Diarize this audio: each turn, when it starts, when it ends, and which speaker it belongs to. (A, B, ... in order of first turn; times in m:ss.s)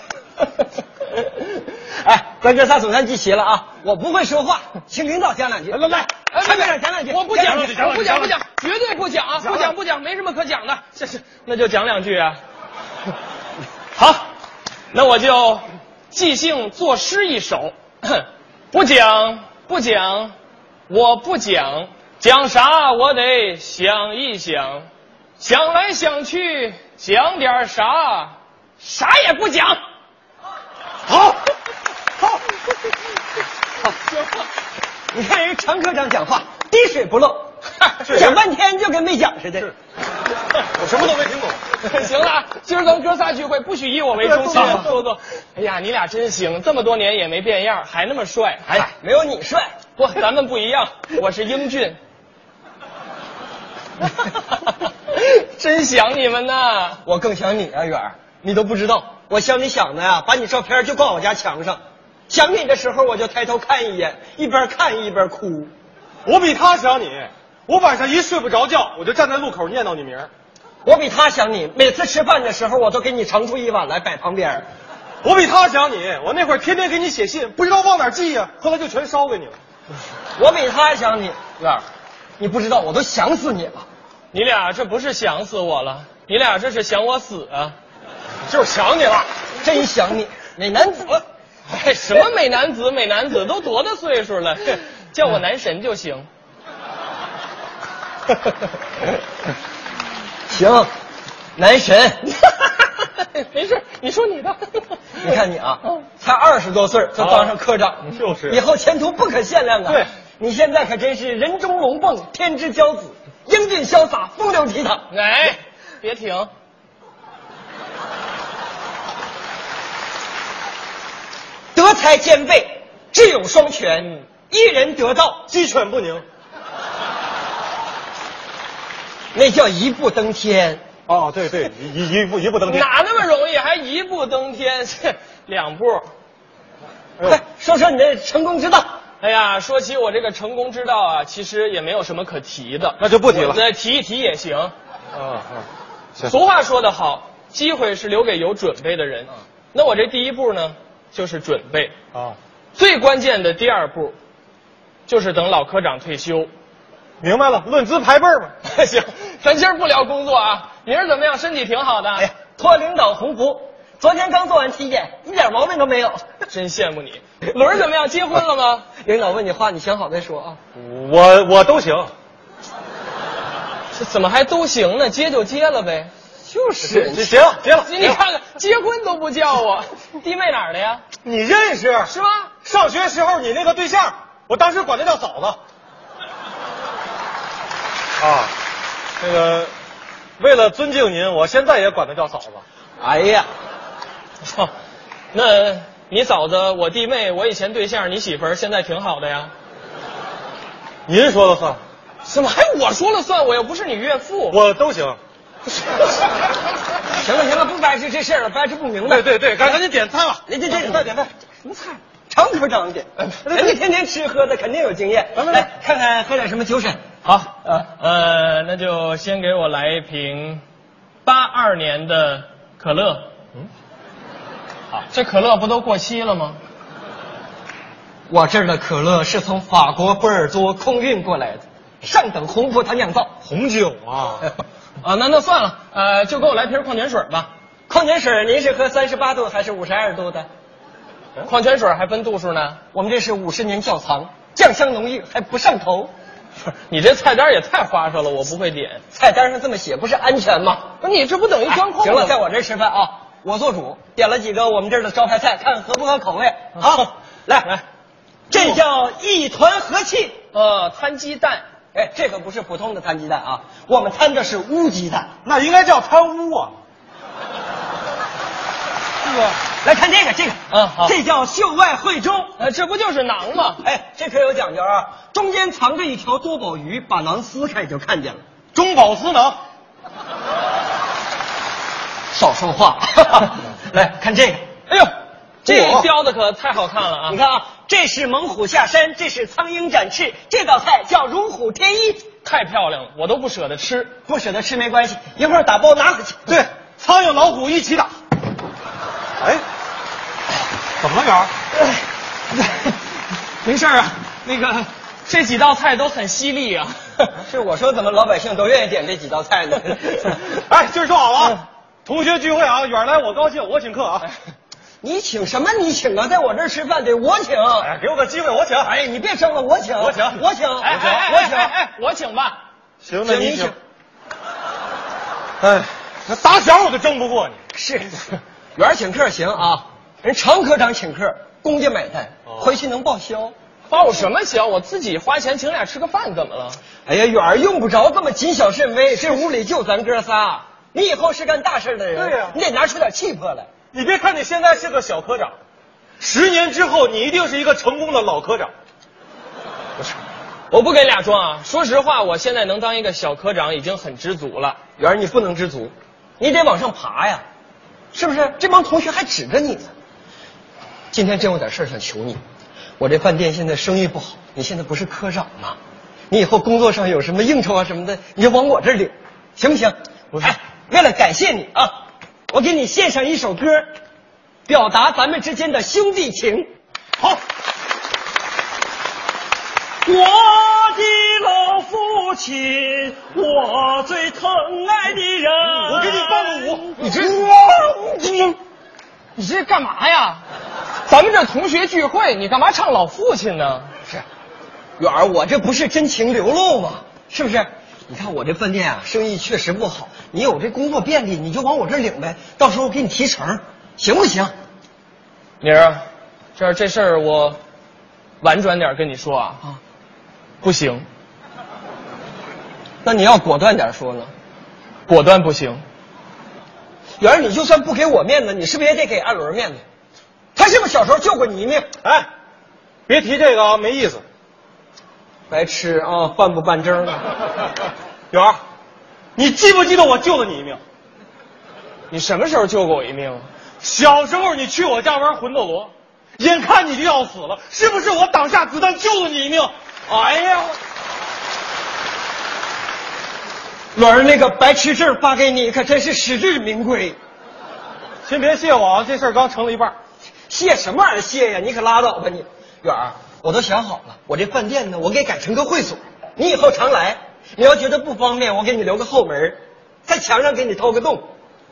0:01.4-0:07.7 A
0:05.7-0:06.2 B
0:06.3-0:12.4 C
0:07.5-0:08.3 B
0:09.4-0:09.7 B
0:13.9-0:14.3 C
0:14.9-0:20.3 C
0:20.9-0:24.9 C
0:25.4-0:29.8 C
0:31.1-0:31.4 B
0:35.1-0:39.7 A
0:38.0-0:38.4 B
0:40.6-0:41.6 B
0:41.8-0:48.8 C
0:44.2-0:44.9 B
0:44.5-0:44.8 A
0:48.7-0:49.7 A
0:50.0-0:52.0 C
0:54.9-0:57.0 C
0:57.0-1:05.7 A
1:06.2-1:10.3 B
1:10.8-1:14.6 A
1:15.2-1:19.5 B
1:20.4-1:21.8 A
1:22.4-1:23.8 A
1:24.3-1:27.7 C
1:28.4-1:29.3 B
1:29.6-1:31.2 A
1:31.7-1:36.3 C
1:40.5-1:40.9 A
1:41.6-1:42.3 A
1:42.8-1:45.3 C
1:45.2-1:55.1 A
1:47.2-1:47.5 B
1:48.1-1:48.6 B
1:55.1-1:56.5 C
2:01.7-2:05.4 A
2:05.5-2:06.2 B
2:09.3-2:10.8 A
2:11.1-2:12.9 B
2:12.7-2:16.1 C
2:17.2-2:18.8 A
2:19.2-2:24.7 C
2:23.0-2:23.6 B
2:25.1-2:25.6 B
2:26.2-2:31.9 C
2:32.7-2:34.1 C
2:35.1-2:36.5 C
2:37.2-2:38.5 B
2:38.6-2:42.3 C
2:42.2-2:46.2 A
2:46.5-2:48.9 C
2:49.0-2:50.6 A
2:50.7-2:52.1 B
2:53.9-2:56.1 C
2:56.4-2:57.6 A
2:56.8-2:58.2 B
2:57.8-3:01.0 C
3:01.2-3:02.1 B
3:02.0-3:02.5 C
3:02.6-3:05.6 B
3:08.2-3:08.5 B
3:09.2-3:09.7 B
3:10.4-3:12.6 B
3:13.0-3:13.5 A
3:14.4-3:14.7 C
3:15.3-3:19.5 C
3:21.1-3:21.8 B
3:22.2-3:24.6 C
3:24.5-3:25.2 B
3:27.1-3:29.8 A
3:29.0-3:31.3 B
3:30.5-3:37.0 A
3:33.4-3:33.8 B
3:35.4-3:35.6 B
3:37.2-3:40.6 C
3:41.2-3:43.3 C
3:44.9-3:46.6 C
3:48.3-3:53.4 A
3:53.4-3:54.5 B
3:55.0-3:57.5 C
3:57.9-4:00.5 A
4:01.4-4:02.8 C
4:02.9-4:06.1 A
4:06.6-4:09.0 C
4:09.1-4:10.9 A
4:11.0-4:12.4 C
4:11.7-4:17.8 A
4:18.5-4:20.4 A
4:20.5-4:21.6 C
4:21.9-4:25.3 A
4:25.4-4:26.7 B
4:29.2-4:29.6 B
4:29.7-4:32.5 A
4:30.7-4:31.2 C
4:32.6-4:33.8 C
4:33.8-4:38.4 A
4:38.7-4:39.6 B
4:42.3-4:44.7 A
4:45.6-4:47.4 C
4:45.7-4:46.0 A
4:45.7-4:46.0 B
4:47.3-4:52.3 A
4:52.4-4:54.2 C
4:54.2-4:56.6 A
4:56.5-4:58.1 B
5:01.0-5:01.5 B
5:03.6-5:07.4 C
5:07.4-5:10.4 A
5:10.5-5:14.3 B
5:15.0-5:17.9 A
5:17.8-5:19.0 B
5:18.8-5:21.7 A
5:20.0-5:21.3 B
5:20.8-5:22.6 C
5:23.0-5:23.7 B
5:23.2-5:23.8 A
5:25.6-5:27.6 B
5:27.7-5:33.5 A
5:33.9-5:36.8 C
5:37.0-5:43.7 A
5:42.1-5:42.6 B
5:43.9-5:45.5 B
5:46.2-5:48.7 B
5:50.7-5:54.8 C
5:55.0-5:57.4 A
5:58.1-5:59.9 A
6:01.1-6:02.4 A
6:03.0-6:05.8 A
6:06.3-6:11.9 A
6:12.5-6:13.9 A
6:14.7-6:16.7 A
6:20.0-6:28.6 A
6:25.6-6:27.1 B
6:29.4-6:30.4 C
6:31.0-6:33.9 C
6:35.0-6:44.5 A
6:45.6-6:46.0 C
6:46.6-6:47.6 C
6:48.4-6:49.6 C
6:50.6-6:51.0 C
6:53.0-6:54.3 A
6:55.1-6:55.8 C
6:57.2-6:59.8 A
7:00.5-7:01.9 A
7:02.0-7:02.3 B
7:03.1-7:04.2 B
7:05.5-7:07.2 A
7:08.3-7:08.6 A
7:09.4-7:10.8 B
7:12.1-7:13.4 C
7:13.8-7:20.8 B
7:23.9-7:27.2 A
7:28.2-7:29.9 B
7:30.5-7:41.2 A